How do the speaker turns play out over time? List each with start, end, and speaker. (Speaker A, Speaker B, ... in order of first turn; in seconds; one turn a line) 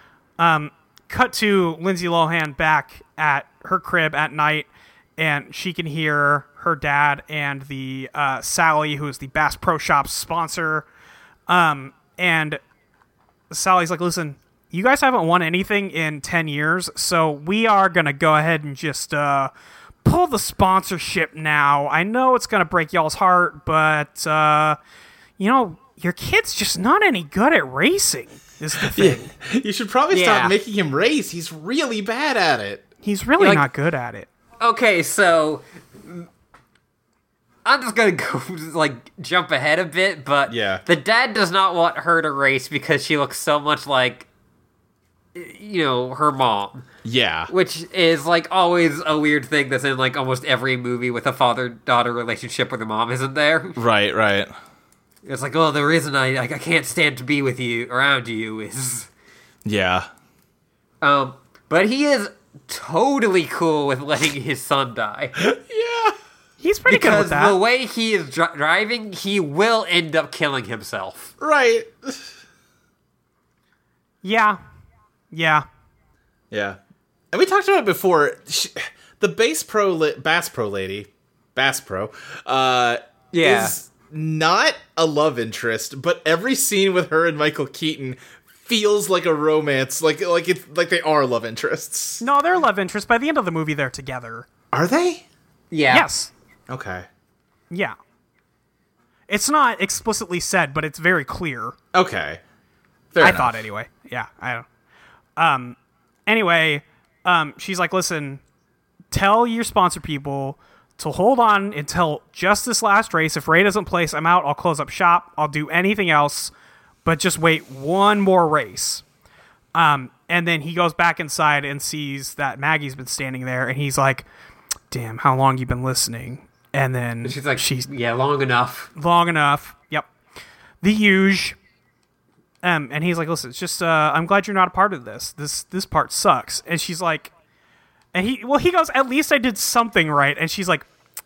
Speaker A: 0.4-10.9
Speaker A: 11.5-12.6
Speaker A: 13.5-19.5
Speaker A: 20.0-24.8
Speaker A: 25.4-29.3
Speaker B: 28.8-32.9
Speaker C: 30.1-30.6
Speaker A: 33.0-34.3
Speaker C: 33.4-33.6
Speaker C: 34.6-36.3
Speaker C: 37.6-44.3
Speaker B: 40.5-40.8
Speaker C: 45.4-46.9
Speaker B: 47.0-47.5
Speaker C: 47.5-53.8
Speaker B: 53.8-54.5
Speaker C: 55.2-59.1
Speaker B: 59.6-60.1
Speaker C: 61.0-65.4
Speaker B: 65.4-66.2
Speaker A: 66.6-67.6
Speaker C: 66.9-71.3
Speaker B: 71.4-72.3
Speaker A: 74.2-74.6
Speaker A: 75.3-75.7
Speaker B: 76.5-76.8
Speaker B: 77.3-92.2
Speaker C: 83.3-83.7
Speaker A: 92.2-94.5
Speaker B: 94.7-95.2
Speaker C: 95.7-96.1
Speaker A: 95.9-96.3
Speaker B: 96.7-97.1
Speaker A: 97.7-98.0
Speaker A: 99.3-101.8
Speaker B: 101.9-102.4
Speaker B: 103.1-103.7
Speaker A: 103.2-104.7
Speaker A: 105.4-108.4
Speaker A: 109.1-116.5
Speaker A: 117.0-119.0
Speaker A: 119.7-124.3
Speaker A: 124.9-127.9
Speaker C: 127.2-128.9
Speaker A: 128.9-130.1
Speaker A: 130.8-131.6
Speaker A: 132.6-137.3
Speaker A: 138.1-140.9